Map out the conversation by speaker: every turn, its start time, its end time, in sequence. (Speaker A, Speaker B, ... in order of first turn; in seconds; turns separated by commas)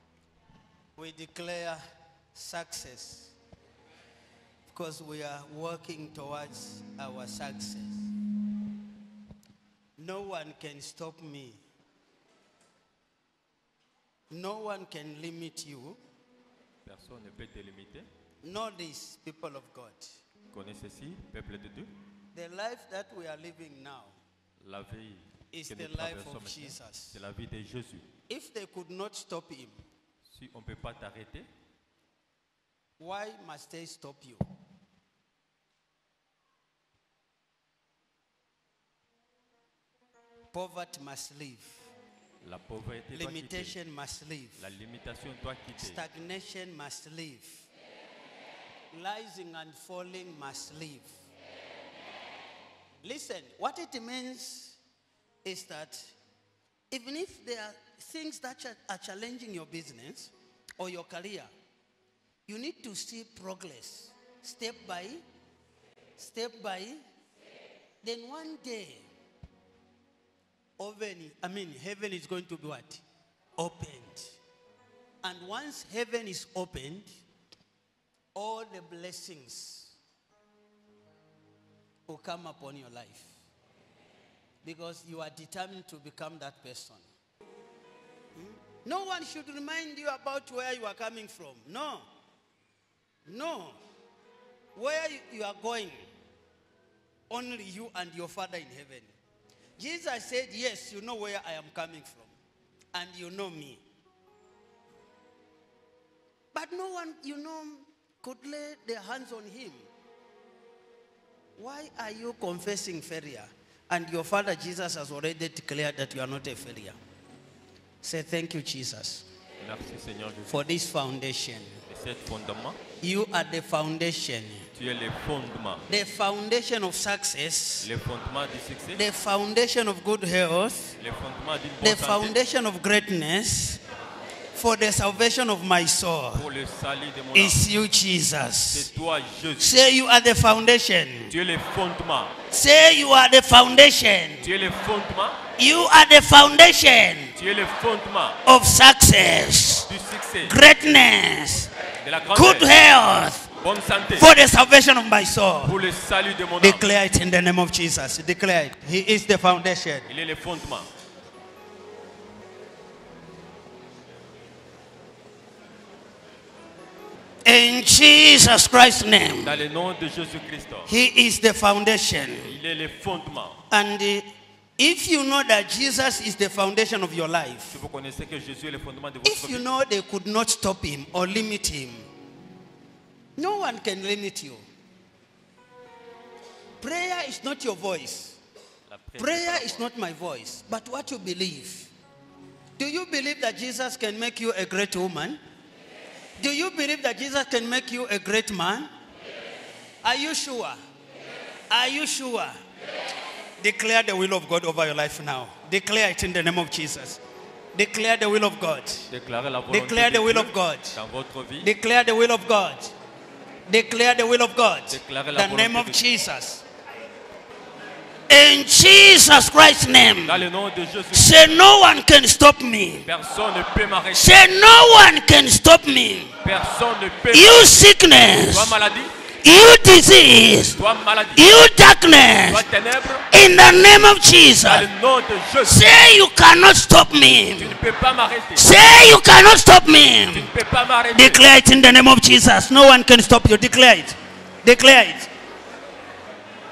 Speaker A: 0.9-1.8, Speaker A: 2.3-3.3, Speaker A: 4.7-8.1, Speaker A: 10.0-11.6, Speaker A: 14.3-16.0, Speaker B: 16.8-18.1, Speaker A: 18.4-20.1, Speaker B: 20.5-21.9, Speaker A: 22.3-24.1, Speaker B: 24.6-28.1, Speaker A: 25.5-27.1, Speaker A: 28.3-29.8, Speaker B: 30.3-31.5, Speaker A: 33.0-34.4, Speaker A: 40.5-41.7, Speaker B: 42.4-43.8, Speaker A: 43.1-44.6, Speaker B: 44.6-46.0, Speaker A: 45.8-47.6, Speaker A: 48.9-51.1, Speaker A: 53.0-54.8, Speaker A: 55.4-56.1, Speaker A: 56.9-61.5, Speaker A: 62.5-65.2, Speaker A: 66.2-67.0, Speaker A: 68.0-69.0, Speaker A: 70.8-73.0, Speaker A: 73.6-74.3, Speaker A: 75.2-77.1, Speaker A: 78.3-79.9, Speaker A: 82.1-83.3, Speaker A: 84.6-87.0, Speaker A: 88.4-92.0, Speaker A: 93.3-93.8, Speaker A: 94.8-96.0, Speaker A: 97.3-99.1, Speaker A: 99.8-102.3, Speaker A: 102.9-103.8, Speaker A: 106.5-109.8, Speaker A: 111.6-117.0, Speaker A: 118.0-119.2, Speaker B: 119.6-120.7, Speaker A: 120.5-121.8, Speaker B: 121.9-122.8, Speaker A: 123.0-124.7, Speaker B: 124.7-125.8, Speaker A: 125.9-127.9, Speaker B: 127.8-129.0, Speaker A: 128.9-130.9, Speaker B: 131.0-132.3, Speaker A: 131.8-133.8, Speaker A: 134.5-136.4, Speaker B: 136.3-137.6, Speaker A: 137.3-138.9, Speaker B: 138.7-139.7, Speaker A: 139.6-141.3, Speaker B: 141.3-142.3, Speaker A: 142.5-144.5, Speaker B: 144.4-145.4, Speaker A: 145.6-147.3, Speaker B: 147.3-148.4, Speaker A: 148.4-149.9, Speaker B: 149.9-150.5, Speaker A: 150.4-151.7, Speaker B: 152.0-152.7, Speaker A: 152.3-153.4, Speaker B: 153.6-154.3, Speaker A: 154.2-155.8, Speaker B: 155.6-156.8, Speaker A: 156.6-160.1, Speaker B: 160.1-160.9, Speaker A: 167.4-169.5, Speaker B: 169.4-170.9, Speaker A: 170.9-172.5, Speaker B: 172.4-173.6, Speaker A: 173.7-174.2, Speaker A: 174.8-177.7, Speaker B: 177.7-179.7, Speaker A: 179.2-182.0, Speaker A: 183.4-184.6, Speaker A: 186.8-188.4, Speaker B: 188.9-189.8, Speaker A: 189.2-191.9, Speaker A: 192.8-195.4, Speaker A: 196.4-198.9, Speaker A: 200.0-200.8, Speaker A: 201.7-202.5, Speaker A: 203.6-207.2, Speaker A: 207.7-209.1, Speaker B: 209.1-211.7, Speaker A: 209.7-210.9, Speaker A: 211.6-212.9, Speaker A: 213.7-216.6, Speaker B: 214.9-216.0, Speaker A: 218.3-220.4, Speaker B: 220.2-221.5, Speaker A: 221.1-223.1, Speaker B: 223.1-224.4, Speaker A: 224.1-226.3, Speaker B: 226.4-227.8, Speaker A: 227.3-228.7, Speaker B: 228.4-229.1, Speaker A: 229.4-230.8, Speaker B: 230.8-231.7, Speaker A: 231.3-232.6, Speaker B: 232.4-233.2, Speaker A: 233.3-234.9, Speaker B: 234.6-235.9, Speaker A: 235.6-237.7, Speaker B: 237.6-238.9, Speaker A: 238.6-240.5, Speaker B: 240.3-241.4, Speaker A: 241.1-245.3